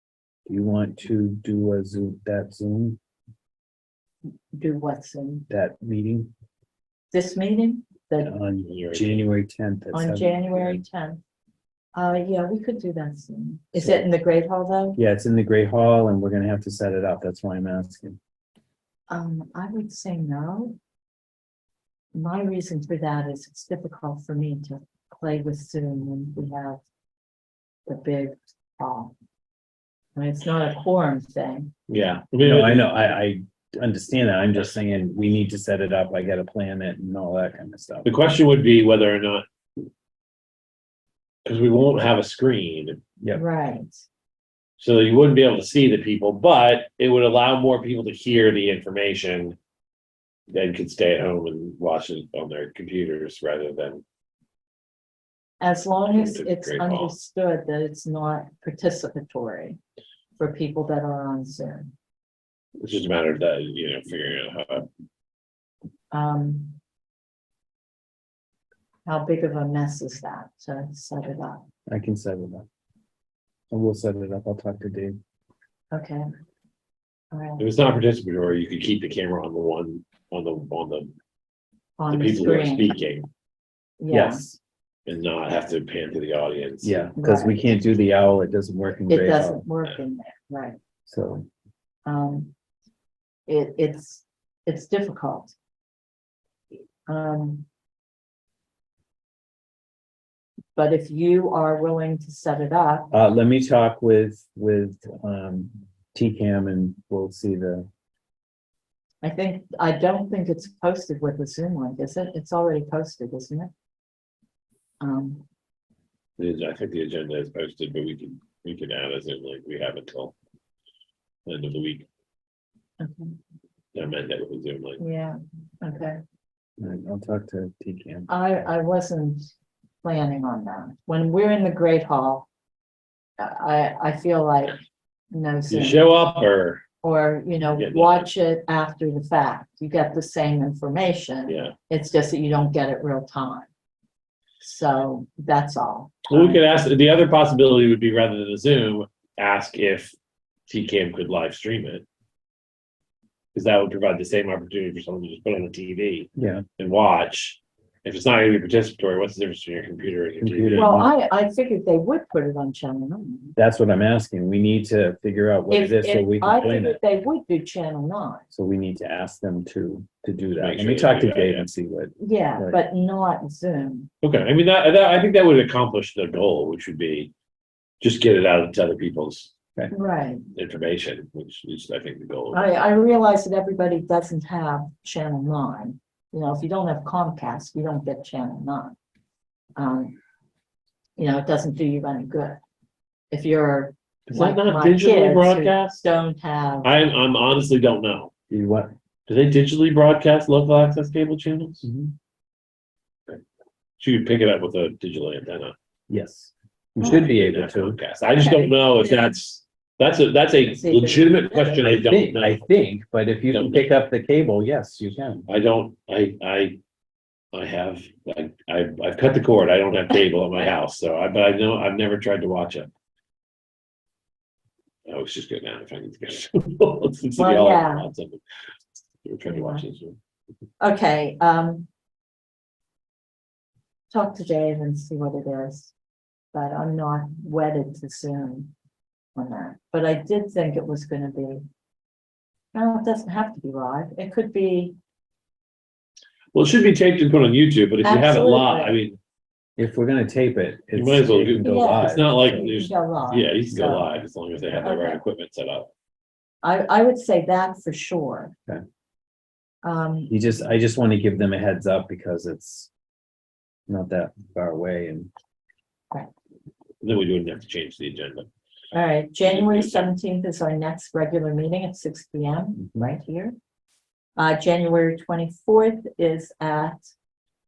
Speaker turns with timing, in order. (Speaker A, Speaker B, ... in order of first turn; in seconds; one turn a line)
Speaker A: 0.5-3.0
Speaker B: 4.5-5.5
Speaker A: 5.5-6.3
Speaker B: 7.1-8.3
Speaker A: 8.2-10.8
Speaker C: 8.6-9.2
Speaker B: 9.9-11.2
Speaker B: 11.9-15.0
Speaker A: 13.8-14.0
Speaker A: 15.0-18.2
Speaker B: 19.1-20.8
Speaker B: 22.1-26.8
Speaker B: 27.9-29.1
Speaker B: 30.1-31.7
Speaker C: 31.9-32.9
Speaker A: 32.4-38.1
Speaker C: 38.0-39.5
Speaker C: 41.5-43.0
Speaker B: 43.4-44.0
Speaker C: 44.8-49.6
Speaker C: 50.5-54.0
Speaker B: 55.6-59.8
Speaker C: 56.1-57.1
Speaker B: 60.4-61.9
Speaker C: 62.8-64.9
Speaker B: 66.1-66.8
Speaker B: 69.1-71.6
Speaker A: 71.9-72.7
Speaker A: 73.7-75.2
Speaker B: 75.9-76.3
Speaker B: 77.3-77.7
Speaker C: 77.6-81.1
Speaker B: 82.0-83.0
Speaker C: 82.1-83.3
Speaker B: 84.0-84.5
Speaker A: 84.1-84.6
Speaker C: 85.1-87.0
Speaker A: 86.8-89.7
Speaker B: 87.2-87.8
Speaker B: 89.1-90.8
Speaker A: 91.1-91.5
Speaker B: 92.1-92.5
Speaker B: 93.5-95.5
Speaker B: 97.1-97.7
Speaker B: 100.8-103.1
Speaker A: 103.1-107.9
Speaker B: 109.2-113.7
Speaker B: 115.0-115.4
Speaker C: 116.4-120.3
Speaker C: 121.5-122.1
Speaker B: 123.0-123.4
Speaker C: 123.9-125.0
Speaker B: 125.0-126.2
Speaker A: 126.8-128.3
Speaker B: 128.3-129.5
Speaker B: 130.0-132.5
Speaker B: 133.4-134.8
Speaker B: 135.3-136.1
Speaker C: 135.7-136.8
Speaker B: 137.0-143.7
Speaker C: 137.8-138.3
Speaker C: 141.5-141.7
Speaker B: 144.6-146.7
Speaker C: 146.3-150.1
Speaker C: 150.7-152.1
Speaker C: 153.6-161.0
Speaker A: 156.4-156.6
Speaker A: 160.4-161.1
Speaker B: 160.8-163.6
Speaker A: 163.6-167.0
Speaker B: 165.7-168.4
Speaker A: 168.5-172.8
Speaker C: 170.6-171.7
Speaker B: 172.2-174.1
Speaker C: 174.2-177.3
Speaker C: 178.0-179.5
Speaker B: 179.9-180.4
Speaker C: 180.6-182.7
Speaker B: 182.5-189.0
Speaker B: 189.8-190.2
Speaker B: 191.2-192.6
Speaker B: 193.3-196.9
Speaker C: 194.3-196.0
Speaker C: 196.8-198.3
Speaker A: 198.5-198.9
Speaker C: 199.3-201.9
Speaker A: 201.8-202.2
Speaker C: 204.0-205.8
Speaker A: 206.1-208.0
Speaker B: 207.0-207.3
Speaker C: 207.0-212.6
Speaker B: 208.3-209.3
Speaker B: 210.6-211.9
Speaker A: 211.8-215.5
Speaker C: 213.5-213.9
Speaker C: 215.5-216.8
Speaker C: 217.5-222.9
Speaker C: 225.1-228.4
Speaker B: 227.4-228.1
Speaker C: 229.2-230.2
Speaker B: 229.5-229.9
Speaker B: 230.8-231.9
Speaker B: 234.1-235.9
Speaker B: 236.5-238.7
Speaker B: 239.3-241.6
Speaker B: 242.7-244.9
Speaker C: 246.5-249.2
Speaker B: 248.0-249.0
Speaker A: 249.8-252.7
Speaker C: 250.9-255.9
Speaker B: 251.6-254.1
Speaker B: 254.8-255.2
Speaker B: 256.6-258.5
Speaker B: 259.8-260.3
Speaker A: 260.3-262.9
Speaker A: 263.9-265.3
Speaker C: 267.0-268.5
Speaker B: 268.9-273.6
Speaker C: 269.4-270.1
Speaker A: 272.8-273.1
Speaker B: 274.4-277.1